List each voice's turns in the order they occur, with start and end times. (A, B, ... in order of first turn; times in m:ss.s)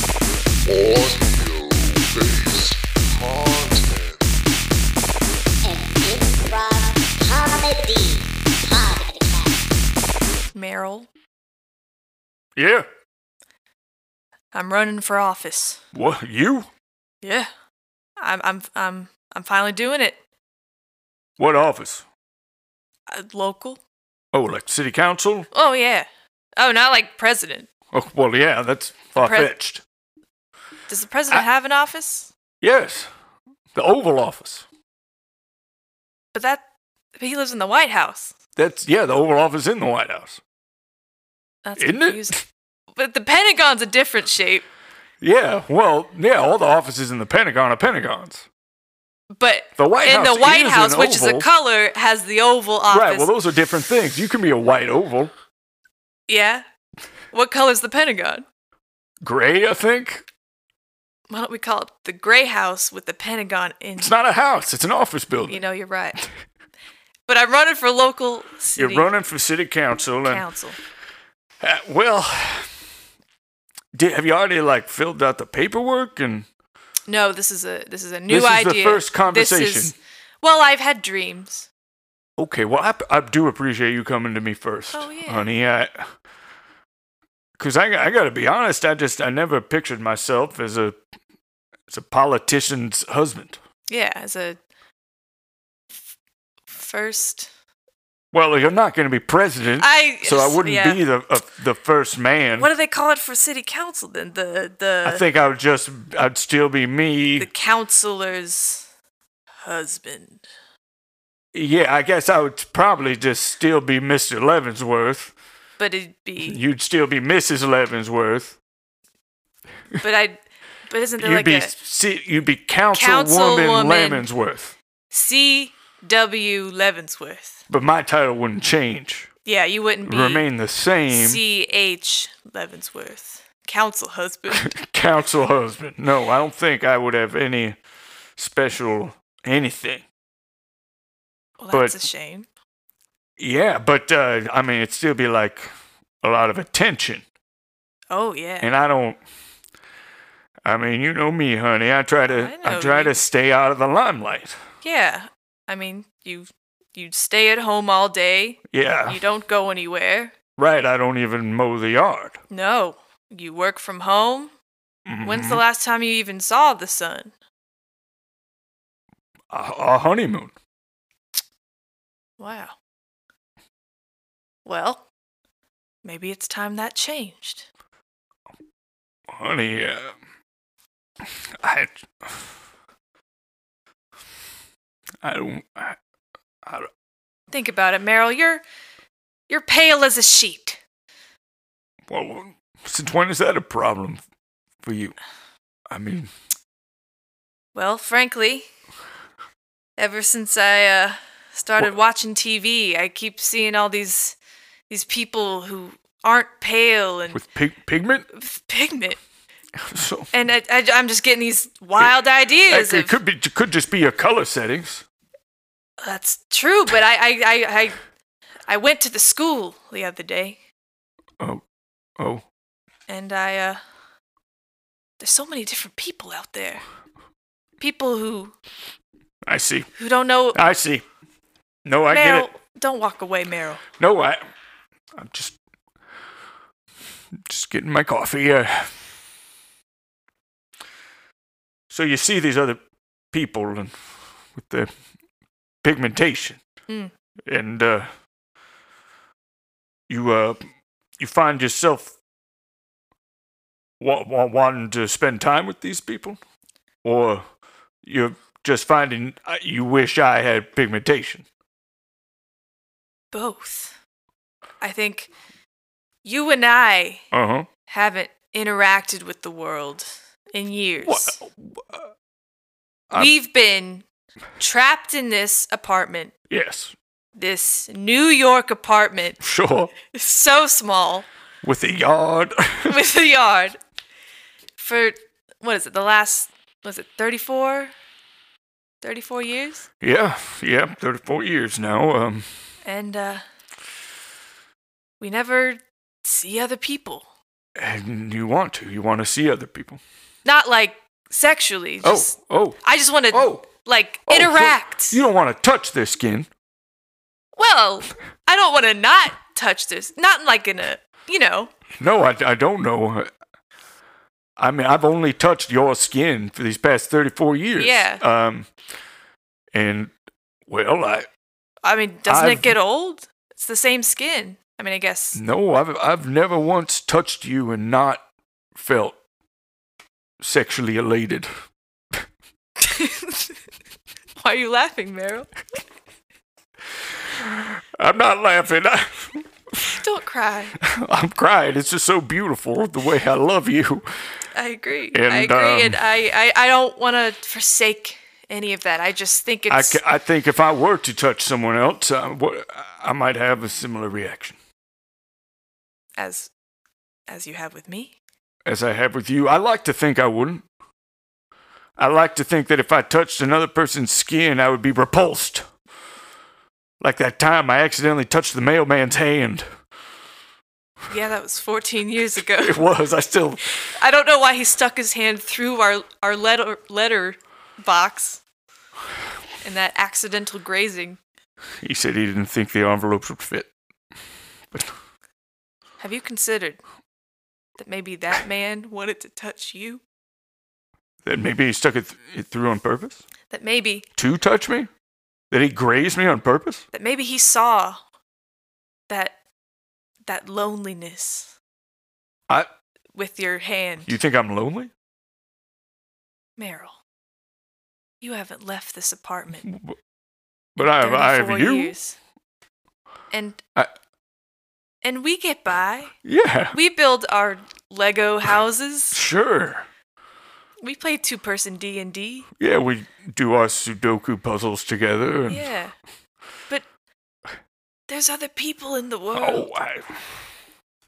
0:00.7-0:04.4 A
0:05.6-0:09.8 B
0:10.5-0:11.1 C
0:12.6-0:12.9 D
0:14.5-0:15.8 C
0:15.9-0:16.7 D
0:17.2-0:17.5 C
0:18.2-0:20.2 C
0:21.4-0:22.0 D
0:23.1-0:23.8 C
0:24.3-0:25.5 D
0:25.5-0:27.7 C
0:27.9-0:29.8 D
0:29.2-0:29.5 C
0:30.9-0:32.3 C
0:32.6-0:33.1 D
0:33.8-0:34.6 D
0:36.3-0:36.6 C
0:37.2-0:38.4 C
0:38.6-0:40.4 D
0:41.6-0:42.4 C
0:41.8-0:42.4 D
0:43.0-0:44.6 C
0:45.2-0:48.4 D
0:49.4-0:53.3 C
0:49.8-0:51.5 D
0:52.9-0:55.3 D
0:56.3-0:56.6 C
0:57.3-0:58.4 C
0:59.2-1:00.2 D
1:01.3-1:04.1 C
1:04.0-1:05.6 D
1:05.5-1:06.2 C
1:07.3-1:09.1 C
1:08.8-1:10.4 D
1:10.3-1:10.8 C
1:11.6-1:12.7 D
1:13.9-1:16.5 D
1:17.1-1:21.7 C
1:18.3-1:20.0 D
1:22.4-1:26.1 D
1:24.9-1:25.5 C
1:27.6-1:31.0 D
1:31.9-1:33.6 D
1:33.9-1:34.6 C
1:36.7-1:37.5 C
1:38.3-1:42.7 D
1:39.8-1:41.0 C
1:42.6-1:45.2 C
1:45.0-1:47.5 D
1:47.4-1:48.9 C
1:49.6-1:50.4 C
1:51.5-1:55.3 D
1:55.8-1:56.6 C
1:56.4-1:58.6 D
2:00.0-2:01.7 C
2:01.2-2:04.8 D
2:02.9-2:04.3 C
2:05.1-2:07.6 C
2:07.7-2:09.3 D
2:09.5-2:10.5 C
2:10.0-2:11.4 D
2:11.1-2:14.8 C
2:14.6-2:17.8 D
2:18.4-2:20.0 D
2:21.6-2:22.5 C
2:21.7-2:22.0 D
2:23.4-2:25.7 D
2:26.2-2:27.2 D
2:28.1-2:28.7 C
2:28.6-2:29.2 D
2:30.6-2:34.6 D
2:32.3-2:33.2 C
2:34.8-2:40.3 C
2:38.7-2:39.2 D
2:40.6-2:42.4 D
2:42.5-2:44.5 C
2:45.1-2:45.6 D
2:45.2-2:47.3 C
2:49.5-2:50.5 D
2:52.4-2:52.7 C
2:54.6-2:55.0 C
2:56.0-2:57.7 C
2:59.3-3:00.1 D
3:01.6-3:02.3 D
3:05.2-3:06.0 D
3:07.5-3:08.6 C
3:09.5-3:10.8 C
3:12.1-3:14.2 D
3:14.8-3:15.1 D
3:15.9-3:16.3 D
3:17.7-3:18.7 C
3:20.0-3:24.4 C
3:24.9-3:27.4 C
3:27.3-3:28.3 D
3:28.3-3:29.2 C
3:29.8-3:30.3 D
3:30.3-3:33.2 C
3:32.7-3:35.0 D
3:36.0-3:38.0 C
3:38.7-3:40.6 C
3:42.2-3:42.4 D
3:43.1-3:43.8 C
3:45.2-3:46.8 C
3:47.8-3:48.5 C
3:49.5-3:49.9 D
3:50.0-3:50.6 C
3:50.5-3:51.0 D
3:51.8-3:52.5 D
3:52.1-3:53.8 C
3:54.0-3:54.4 D
3:55.2-3:55.6 D
3:57.5-3:58.9 D
4:01.9-4:02.8 D
4:03.3-4:03.9 D
4:04.6-4:04.9 D
4:05.8-4:06.6 D
4:07.5-4:08.1 D
4:10.1-4:10.6 D
4:11.2-4:12.1 D
4:14.0-4:16.4 D
4:17.0-4:17.4 D
4:18.0-4:21.4 D
4:23.3-4:24.0 C
4:24.8-4:25.3 C
4:26.2-4:27.2 C
4:27.3-4:27.7 D
4:27.9-4:31.4 C
4:31.1-4:32.0 D
4:33.1-4:34.0 C
4:34.6-4:36.3 C
4:36.5-4:36.9 D
4:37.4-4:39.4 C
4:39.4-4:39.9 D
4:40.0-4:41.3 C
4:41.6-4:43.0 D
4:42.9-4:43.8 C
4:44.8-4:47.9 C
4:49.0-4:49.9 C
4:50.0-4:52.5 D
4:52.8-4:53.4 C
4:55.2-4:57.3 C
4:57.8-5:00.0 D
5:00.4-5:05.2 C
5:02.0-5:02.8 D
5:03.3-5:03.6 D
5:04.3-5:06.5 D
5:07.6-5:11.7 C
5:12.0-5:13.3 D
5:14.6-5:18.7 D
5:17.8-5:18.2 C
5:19.7-5:20.1 D
5:20.7-5:21.3 D
5:21.8-5:25.4 C
5:22.3-5:22.8 D
5:25.4-5:28.2 D
5:28.8-5:29.2 D
5:30.4-5:31.5 D
5:32.8-5:33.6 C
5:34.4-5:35.5 C
5:38.0-5:39.9 D
5:39.9-5:40.8 C
5:40.8-5:44.2 D
5:44.5-5:50.0 C
5:45.1-5:46.0 D
5:49.7-5:54.6 D
5:56.2-5:56.5 C
5:57.3-5:58.2 C
5:58.7-6:00.6 D
6:02.0-6:05.7 D
6:07.0-6:09.7 D
6:11.1-6:12.8 C
6:12.6-6:13.7 D
6:14.0-6:18.4 C
6:19.6-6:21.2 C
6:21.8-6:23.7 D
6:26.0-6:26.8 C
6:27.8-6:30.0 C
6:31.2-6:33.2 D
6:33.5-6:34.1 C
6:34.2-6:34.9 D
6:35.5-6:36.8 D
6:36.9-6:38.0 C
6:39.1-6:39.4 C
6:40.3-6:41.5 C
6:43.2-6:44.1 C
6:44.1-6:44.9 D
6:46.6-6:47.0 C
6:48.2-6:49.7 C
6:49.7-6:50.0 D
6:50.8-6:51.9 D
6:50.8-6:52.2 C
6:53.3-6:53.6 C
6:55.0-6:56.1 C
6:56.2-6:56.8 D
6:56.7-6:59.2 C
6:59.1-6:59.9 D
7:00.8-7:02.5 C
7:02.6-7:05.6 D
7:05.5-7:06.0 C
7:08.1-7:09.7 C
7:09.4-7:10.1 D